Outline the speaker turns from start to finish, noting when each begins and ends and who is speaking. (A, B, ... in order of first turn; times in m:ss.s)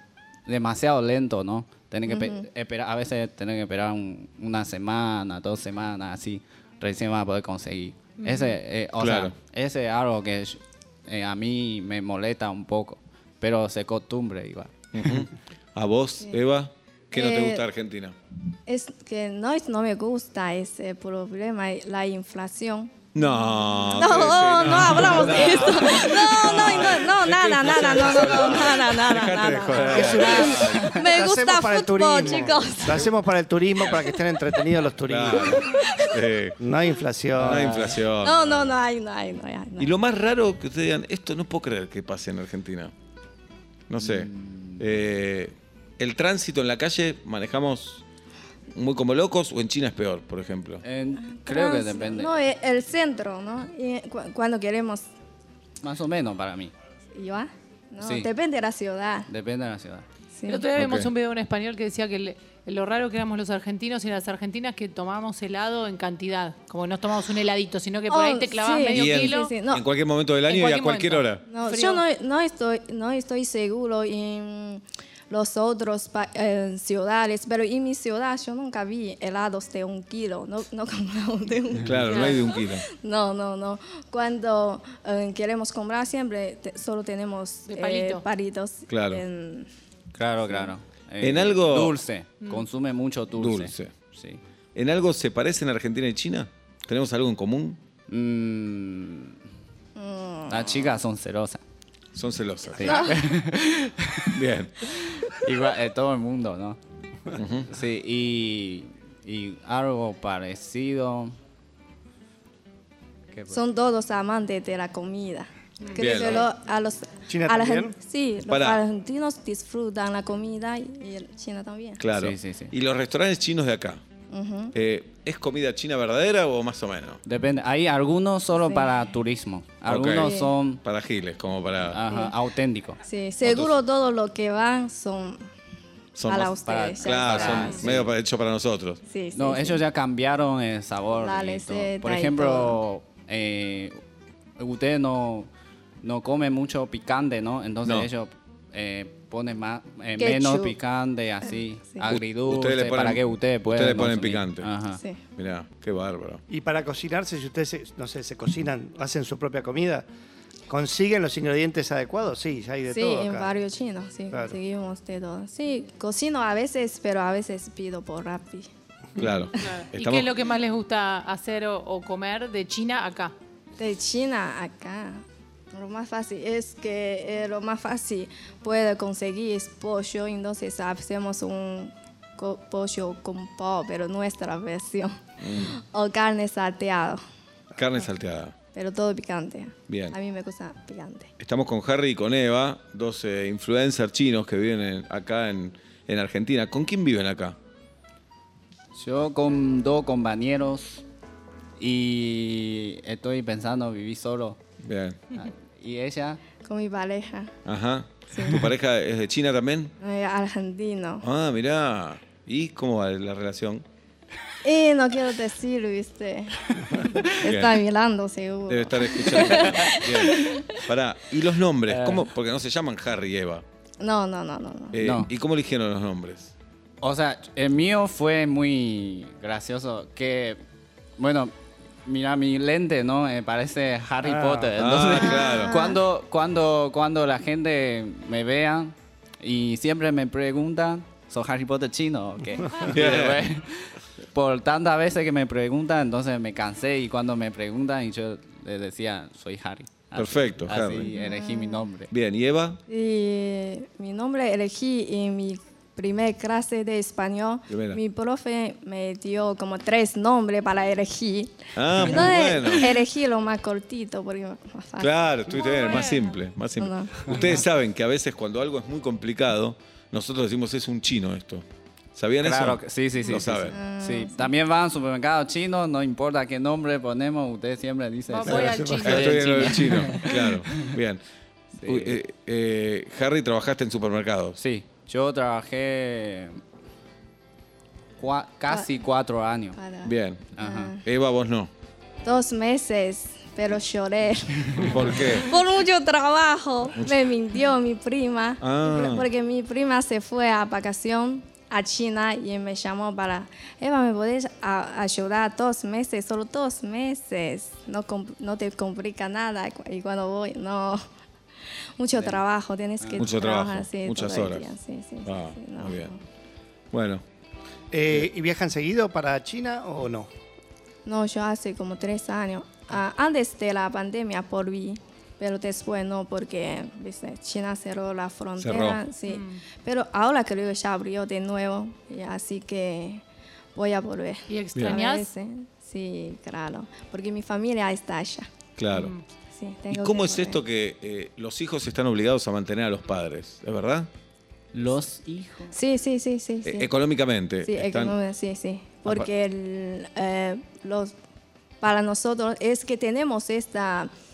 0:00.4-0:14.7 A
0:02.1-0:02.4 B
0:08.2-0:08.5 C
0:09.0-0:09.3 D
0:14.9-0:18.1 D
0:17.1-0:17.6 B
0:18.7-0:22.9 B
0:23.1-0:30.9 D
0:23.9-0:33.2 B
0:29.7-0:35.6 E
0:33.8-0:34.2 B
0:35.1-0:36.6 D
0:35.6-0:36.1 B
0:36.6-0:37.8 E
0:37.4-0:38.0 A
0:37.4-0:38.7 D
0:38.2-0:39.9 B
0:39.8-0:42.9 D
0:43.9-0:48.0 D
0:44.0-0:44.8 A
0:48.7-0:50.8 D
0:50.8-0:52.4 A
0:51.2-0:55.1 B
0:55.8-0:56.7 A
0:57.1-0:59.3 B
0:58.0-0:58.3 A
0:59.3-1:00.0 A
1:00.3-1:00.7 B
1:00.5-1:09.5 C
1:00.8-1:01.1 D
1:08.1-1:09.8 B
1:08.9-1:11.4 D
1:10.4-1:12.0 C
1:11.5-1:29.7 B
1:21.8-1:22.8 D
1:22.1-1:22.4 C
1:27.7-1:28.2 C
1:28.9-1:29.2 D
1:30.1-1:34.4 A
1:30.4-1:30.7 B
1:31.2-1:32.0 D
1:33.4-1:33.9 D
1:34.7-1:37.8 D
1:38.1-1:39.4 A
1:40.0-1:41.0 B
1:40.5-1:41.6 A
1:42.1-1:43.0 D
1:42.8-1:44.4 A
1:42.8-1:43.2 B
1:44.3-1:45.3 D
1:45.0-1:46.8 A
1:47.3-1:47.7 D
1:47.7-1:51.3 A
1:53.3-1:53.6 A
1:53.5-2:02.0 B
1:55.8-1:56.1 C
1:56.0-1:56.5 D
1:57.3-1:58.0 E
1:58.5-1:58.8 D
2:02.0-2:04.0 D
2:02.1-2:02.7 A
2:04.3-2:04.7 B
2:04.7-2:07.2 D
2:07.2-2:10.8 A
2:08.5-2:09.0 B
2:09.8-2:12.0 D
2:10.2-2:10.5 B
2:11.9-2:13.0 A
2:13.0-2:15.4 B
2:13.4-2:13.7 D
2:16.2-2:19.0 D
2:16.2-2:18.0 B
2:16.5-2:18.1 A
2:17.5-2:17.8 C
2:19.1-2:19.8 B
2:19.3-2:24.0 A
2:21.1-2:22.8 B
2:24.6-2:25.5 A
2:26.0-2:35.0 A
2:27.8-2:28.1 D
2:30.2-2:30.8 B
2:32.1-2:34.7 D
2:34.9-2:35.2 B
2:35.4-2:36.4 D
2:36.5-2:40.1 E
2:40.7-2:43.6 E
2:42.9-2:48.7 B
2:44.3-2:44.6 E
2:49.2-2:50.3 D
2:49.6-2:53.3 C
2:53.8-3:07.2 B
3:05.4-3:05.7 D
3:07.8-3:08.5 D
3:08.7-3:11.3 B
3:09.9-3:10.2 D
3:11.4-3:17.6 D
3:18.9-3:21.0 A
3:21.8-3:24.6 A
3:24.8-3:25.2 D
3:25.3-3:26.4 A
3:26.6-3:27.5 B
3:27.6-3:29.9 D
3:28.3-3:28.7 B
3:30.0-3:31.2 B
3:31.2-3:33.8 D
3:34.6-3:40.8 B
3:37.4-3:37.8 D
3:38.7-3:43.6 D
3:41.9-3:42.2 A
3:44.0-3:45.0 B
3:44.9-3:46.5 D
3:45.0-3:45.3 A
3:47.0-3:50.6 A
3:51.2-3:51.5 A
3:52.0-4:12.1 A
3:54.2-3:54.7 E
3:54.8-3:55.8 D
3:55.1-3:56.0 B
4:02.9-4:03.4 D
4:10.1-4:11.1 D
4:11.1-4:11.8 B
4:12.1-4:12.8 D
4:12.9-4:25.1 B
4:17.7-4:18.0 D
4:21.8-4:23.0 D
4:25.0-4:33.8 D
4:25.5-4:26.4 C
4:26.8-4:27.5 B
4:32.4-4:40.9 A
4:33.7-4:34.5 B
4:38.3-4:39.4 C
4:38.5-4:40.1 E
4:39.0-4:41.2 D
4:41.8-4:42.2 A
4:41.8-4:44.6 D
4:44.6-4:46.6 A
4:48.2-4:49.8 A
4:49.7-4:51.0 B
4:50.0-4:51.7 D
4:50.6-4:50.9 A
4:52.2-5:11.0 B
4:54.8-4:55.5 D
4:58.6-4:59.3 D
5:12.0-5:16.2 B
5:12.1-5:12.4 A
5:13.0-5:13.3 A
5:13.2-5:16.1 D
5:16.9-5:17.2 D
5:17.9-5:20.3 E
5:21.0-5:33.2 B
5:28.6-5:29.0 D
5:29.3-5:29.6 C
5:33.7-5:38.5 B
5:34.5-5:35.3 C
5:38.8-5:39.1 D
5:38.9-5:39.2 C
5:39.5-5:40.6 B
5:39.9-5:44.1 D
5:44.7-5:45.8 A
5:45.7-5:46.9 B
5:46.6-5:48.1 D
5:47.6-5:51.1 B
5:51.8-5:54.1 B